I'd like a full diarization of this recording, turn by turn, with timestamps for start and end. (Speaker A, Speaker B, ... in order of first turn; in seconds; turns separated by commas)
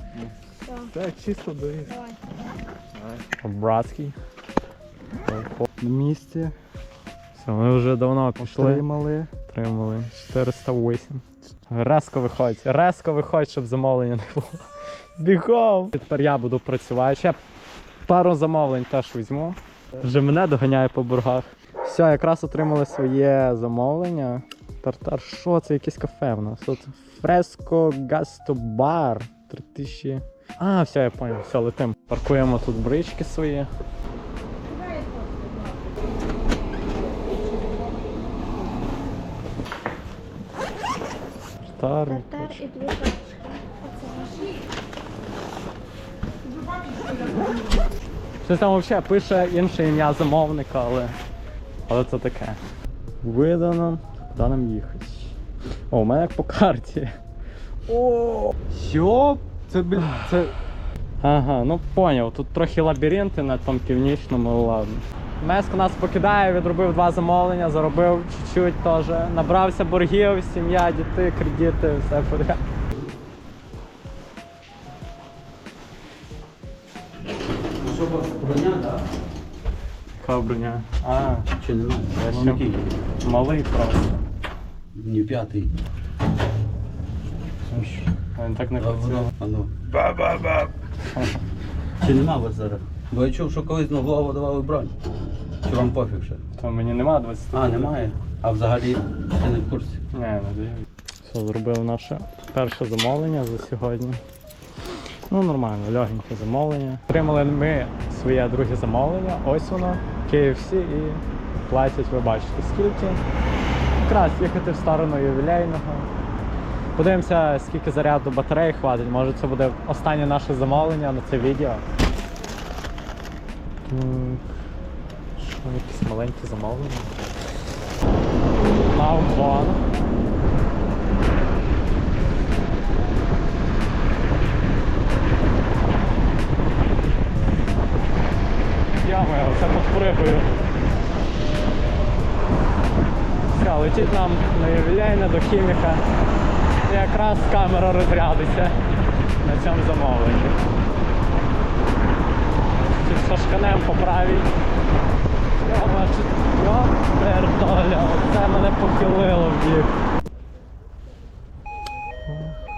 Speaker A: 0.6-0.9, Speaker B: 0.9-2.0, Speaker A: 1.9-2.2, Speaker B: 3.0-3.2, Speaker C: 3.4-4.1, Speaker C: 5.2-5.7, Speaker B: 5.8-6.5, Speaker C: 7.3-8.8, Speaker B: 8.4-9.3, Speaker C: 9.5-14.6, Speaker C: 15.2-17.4, Speaker C: 18.1-33.7, Speaker C: 41.7-42.6, Speaker A: 42.1-44.4, Speaker C: 48.4-51.1, Speaker C: 51.9-52.6, Speaker C: 53.2-55.3, Speaker C: 55.9-57.1, Speaker C: 57.9-58.9, Speaker B: 58.7-60.1, Speaker C: 59.6-60.5, Speaker C: 61.2-72.6, Speaker D: 77.8-79.0, Speaker C: 80.2-81.5, Speaker D: 81.5-82.8, Speaker C: 82.1-82.6, Speaker C: 83.2-84.2, Speaker D: 84.9-85.7, Speaker C: 87.7-89.3, Speaker D: 88.8-90.7, Speaker C: 91.1-91.4, Speaker D: 92.0-94.9, Speaker D: 95.6-96.4, Speaker C: 96.5-97.9, Speaker D: 97.5-100.0, Speaker C: 100.1-104.2, Speaker C: 105.3-113.2, Speaker C: 113.9-116.1, Speaker C: 117.0-121.8, Speaker C: 123.9-124.4, Speaker C: 125.4-127.1, Speaker C: 128.9-129.8, Speaker C: 138.9-140.5, Speaker C: 143.5-146.0, Speaker C: 146.8-148.8, Speaker C: 149.4-150.6, Speaker C: 152.8-154.5, Speaker C: 155.6-159.9